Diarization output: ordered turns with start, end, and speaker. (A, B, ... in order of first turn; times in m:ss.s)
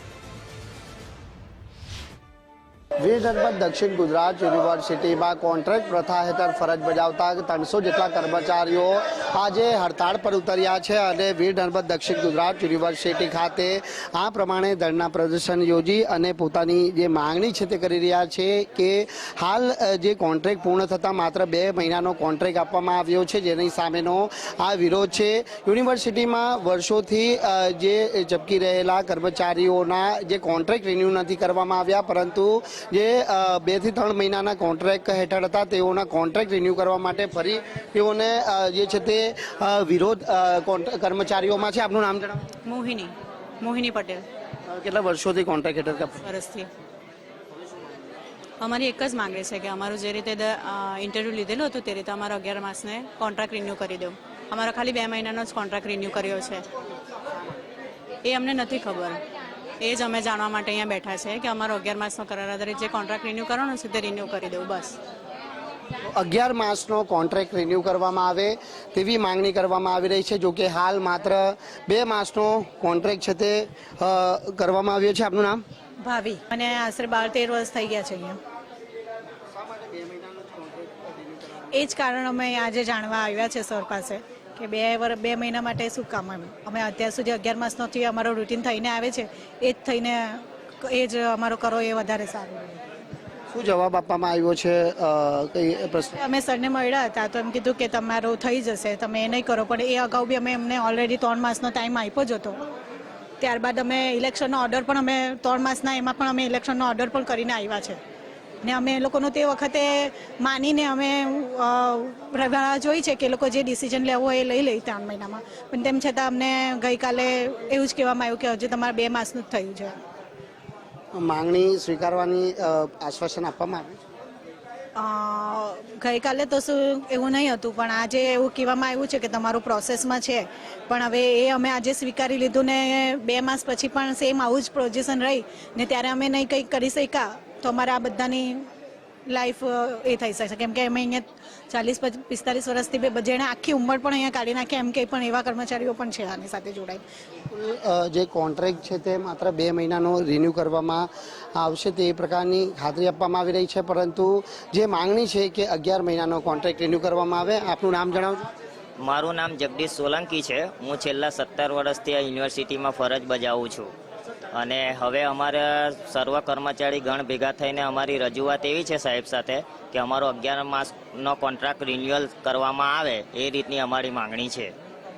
0:03.0-0:42.4 A
0:42.6-0:44.2 B
0:44.7-0:46.2 A
0:46.2-0:46.7 B
0:48.6-0:56.6 B
0:58.2-0:59.2 B
0:59.8-1:05.0 B
1:06.0-1:15.6 A
1:16.0-1:18.4 C
1:19.6-1:21.7 A
1:21.7-1:32.8 C
1:33.5-1:36.2 A
1:36.2-1:42.6 C
1:43.4-1:48.0 C
1:48.6-2:00.0 C
2:01.1-2:04.0 A
2:05.0-2:18.7 C
2:19.3-2:27.0 C
2:27.4-2:38.5 A
2:39.0-2:43.9 D
2:44.5-2:54.7 D